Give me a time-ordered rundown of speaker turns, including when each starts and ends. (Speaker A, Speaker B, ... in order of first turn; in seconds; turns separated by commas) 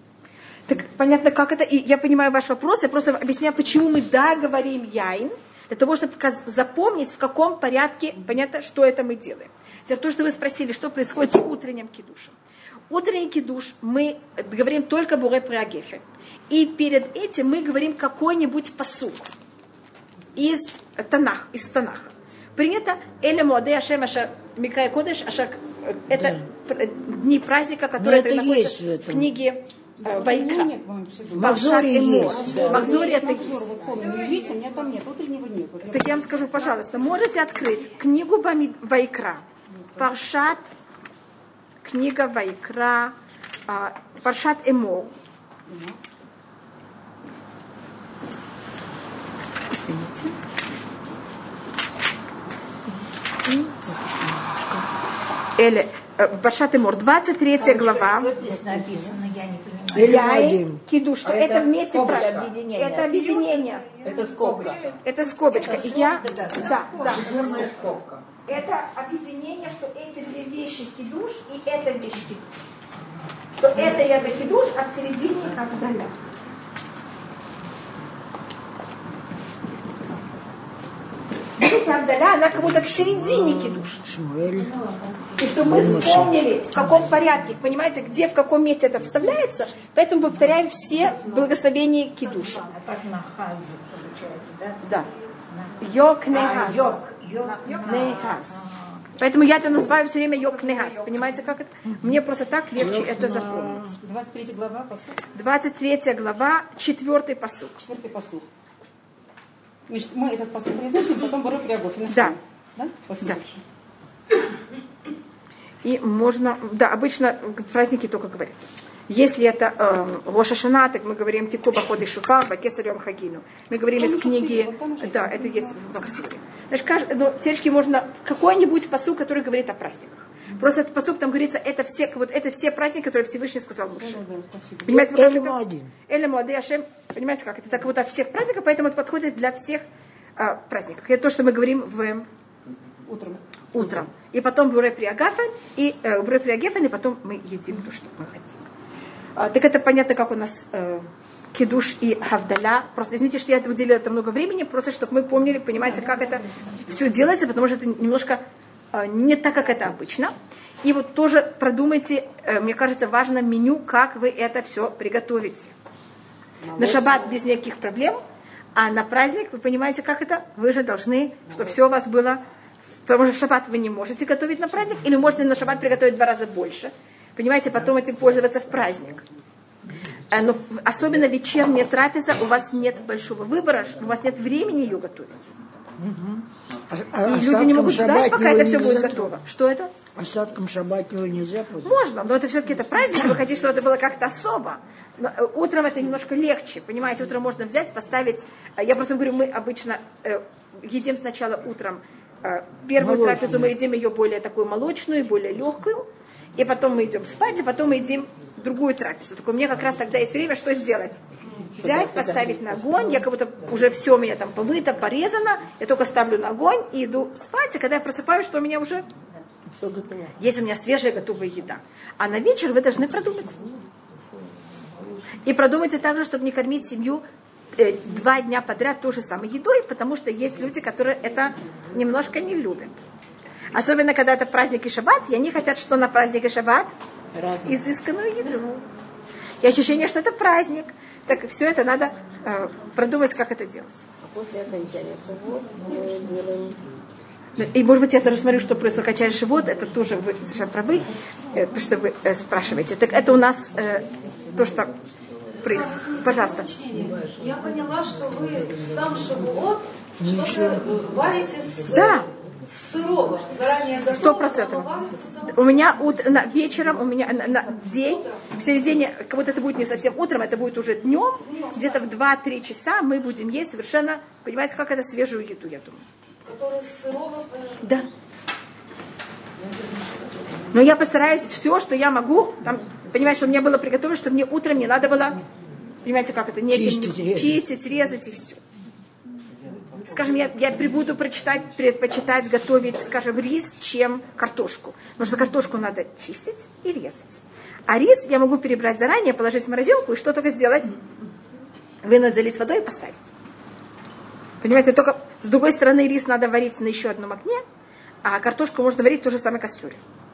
Speaker A: 0.7-12.4, Speaker A: 12.9-19.3, Speaker A: 20.4-30.7, Speaker B: 26.1-26.4, Speaker B: 28.0-29.3, Speaker C: 30.2-31.4, Speaker B: 31.3-32.8, Speaker A: 31.3-33.9, Speaker C: 32.4-36.4, Speaker D: 32.4-33.1, Speaker A: 35.9-40.7, Speaker A: 41.8-43.1, Speaker A: 43.7-45.1, Speaker A: 49.7-50.3, Speaker A: 52.9-54.9, Speaker A: 55.6-58.3, Speaker D: 57.6-60.2, Speaker B: 59.9-60.8, Speaker A: 59.9-63.9, Speaker E: 61.2-62.6, Speaker D: 62.0-64.9, Speaker C: 63.8-65.0, Speaker E: 64.0-65.0, Speaker A: 65.0-67.9, Speaker D: 65.5-67.6, Speaker C: 66.8-67.3, Speaker E: 66.9-68.2, Speaker A: 68.4-72.6, Speaker A: 73.6-76.1, Speaker A: 81.6-84.0, Speaker B: 82.6-84.8, Speaker A: 85.4-92.7, Speaker B: 85.6-86.4, Speaker D: 92.3-94.8, Speaker A: 94.8-95.1, Speaker A: 95.8-97.0, Speaker D: 96.3-98.8, Speaker F: 97.4-98.1, Speaker A: 97.8-98.6, Speaker A: 99.2-104.0, Speaker C: 100.7-101.3, Speaker B: 102.8-104.0, Speaker C: 104.0-105.2, Speaker A: 105.3-107.8, Speaker C: 107.9-108.4, Speaker C: 109.9-113.6, Speaker A: 112.1-112.4, Speaker A: 115.8-134.2, Speaker C: 124.0-125.8, Speaker C: 134.0-134.8, Speaker A: 134.8-135.6, Speaker B: 134.9-135.9, Speaker A: 136.1-139.8, Speaker A: 140.4-142.3, Speaker C: 143.1-143.4, Speaker A: 143.7-148.6, Speaker A: 149.4-158.4, Speaker A: 158.9-165.7, Speaker A: 166.7-168.2, Speaker A: 168.8-172.4, Speaker A: 173.1-179.2, Speaker A: 180.3-185.7, Speaker B: 186.0-189.3, Speaker A: 187.2-189.9, Speaker B: 190.1-192.0, Speaker A: 191.8-211.2, Speaker B: 203.0-203.8, Speaker A: 211.8-219.1, Speaker D: 211.8-213.2, Speaker D: 219.7-220.4, Speaker A: 220.4-223.7, Speaker A: 225.4-227.2, Speaker A: 227.8-233.0, Speaker A: 233.7-236.9, Speaker D: 237.3-237.8, Speaker A: 237.6-238.8, Speaker A: 239.6-244.0, Speaker D: 244.2-246.8, Speaker A: 247.6-254.9, Speaker E: 254.1-255.6, Speaker A: 255.6-256.7, Speaker F: 255.6-265.8, Speaker B: 260.2-260.9, Speaker A: 261.8-262.3, Speaker A: 263.9-264.9, Speaker A: 265.5-276.0, Speaker F: 267.6-268.5, Speaker F: 271.4-272.0, Speaker F: 276.4-277.9, Speaker A: 277.8-278.1, Speaker A: 280.7-285.4, Speaker A: 286.0-288.6, Speaker B: 286.7-287.6, Speaker E: 289.5-291.0, Speaker A: 290.0-301.0, Speaker A: 302.0-303.3, Speaker A: 304.6-307.6, Speaker A: 308.2-310.0